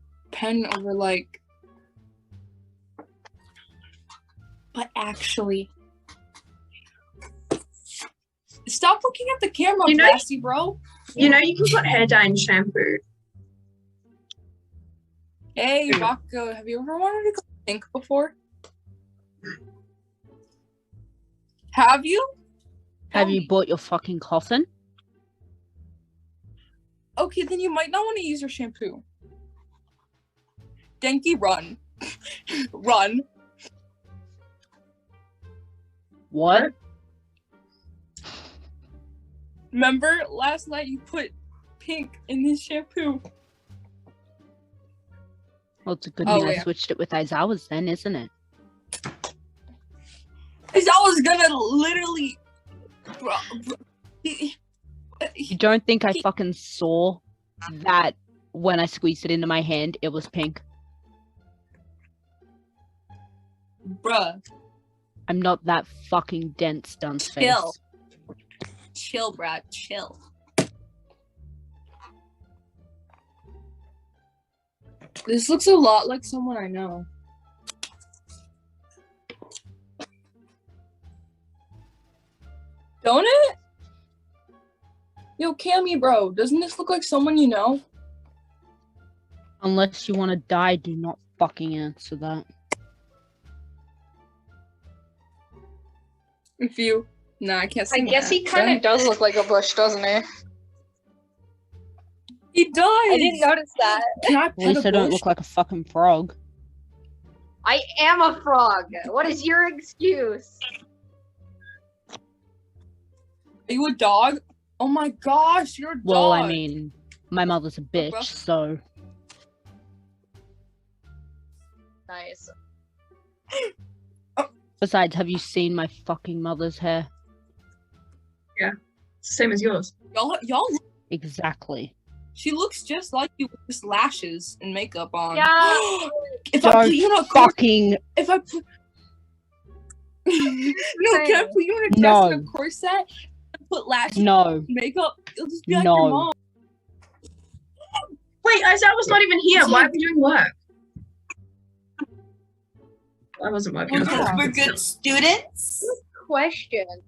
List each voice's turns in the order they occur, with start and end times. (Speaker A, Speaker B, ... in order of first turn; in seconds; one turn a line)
Speaker A: 0.3-1.4
Speaker A: 4.7-5.7
Speaker A: 8.7-10.8
Speaker B: 9.9-10.2
Speaker B: 11.2-13.0
Speaker A: 15.6-18.4
Speaker A: 21.7-22.3
Speaker A: 23.1-23.5
Speaker C: 23.1-24.7
Speaker A: 27.2-29.0
Speaker A: 31.0-31.8
Speaker A: 32.7-33.2
Speaker C: 36.3-36.7
Speaker A: 39.7-43.2
Speaker C: 45.9-48.3
Speaker A: 46.2-46.7
Speaker A: 50.7-52.4
Speaker A: 53.2-54.5
Speaker A: 55.2-55.6
Speaker C: 55.5-60.6
Speaker A: 63.9-64.4
Speaker C: 65.3-67.8
Speaker A: 67.3-67.8
Speaker A: 69.0-70.2
Speaker A: 75.3-77.1
Speaker A: 83.0-83.6
Speaker A: 85.4-87.8
Speaker C: 89.6-92.5
Speaker A: 96.6-98.8
Speaker D: 97.9-100.2
Speaker A: 102.5-103.5
Speaker D: 103.1-104.3
Speaker A: 104.2-105.2
Speaker C: 104.6-106.3
Speaker D: 107.7-110.6
Speaker A: 113.7-116.6
Speaker C: 116.0-118.8
Speaker A: 118.0-118.3
Speaker D: 122.1-122.5
Speaker C: 124.8-127.1
Speaker B: 128.6-129.9
Speaker A: 130.1-130.8
Speaker C: 131.1-131.9
Speaker A: 132.3-137.6
Speaker D: 135.3-136.1
Speaker C: 136.6-138.0
Speaker A: 138.2-138.6
Speaker A: 140.3-143.1
Speaker D: 140.9-141.6
Speaker C: 141.9-142.5
Speaker A: 143.7-146.3
Speaker C: 144.1-144.7
Speaker C: 145.7-146.3
Speaker B: 148.4-150.6
Speaker B: 153.4-154.8
Speaker A: 153.9-155.9
Speaker D: 155.8-157.0